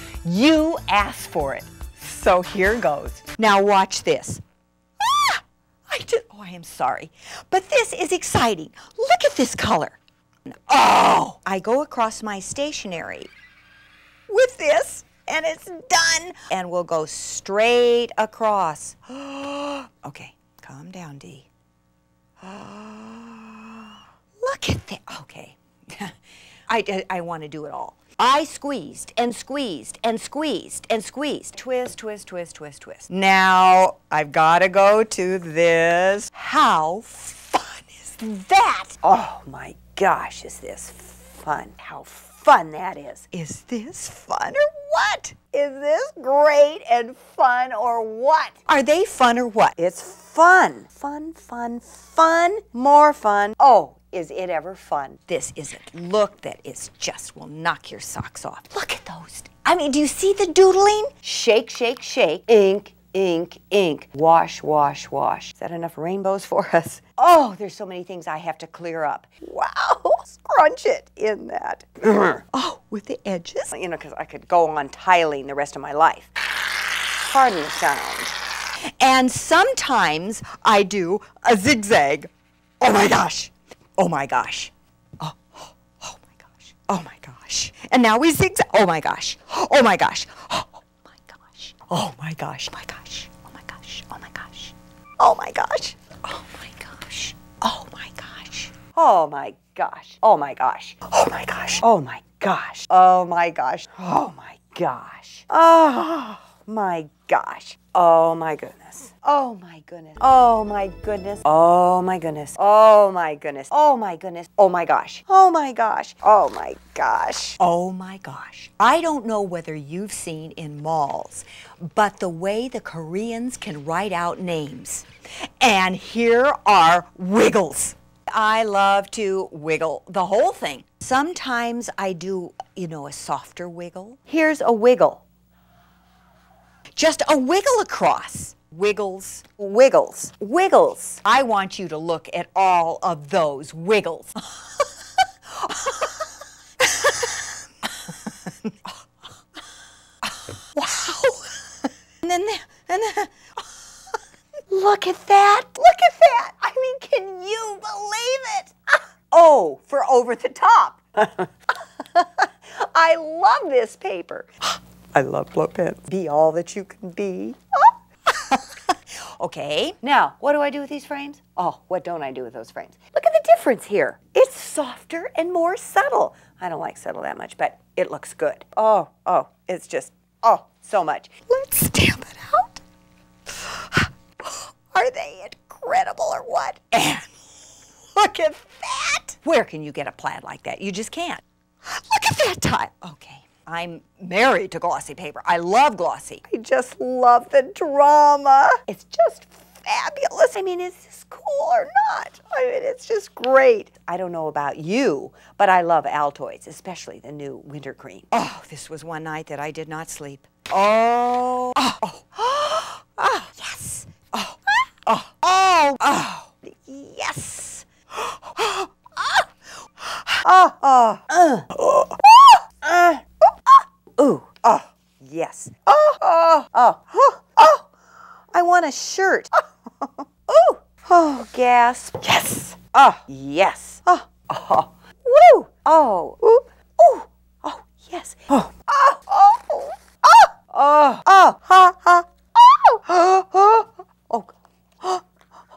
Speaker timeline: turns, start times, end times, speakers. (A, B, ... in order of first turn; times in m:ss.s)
0:00.2-0:04.4 A
0:05.0-0:13.3 A
0:14.3-0:21.5 A
0:22.4-0:26.1 A
0:26.7-1:16.3 A
1:17.2-1:18.4 A
1:19.0-2:05.1 A
2:05.6-2:15.2 A
2:16.9-2:24.8 A
2:25.5-2:26.2 A
2:26.8-2:27.5 A
2:28.1-2:28.9 A
2:30.2-2:31.6 A
2:32.2-2:33.6 A
2:34.7-2:38.7 A
2:39.3-3:02.8 A
3:03.5-3:07.3 A
3:08.2-3:39.5 A
3:40.0-3:47.9 A
3:48.5-4:05.2 A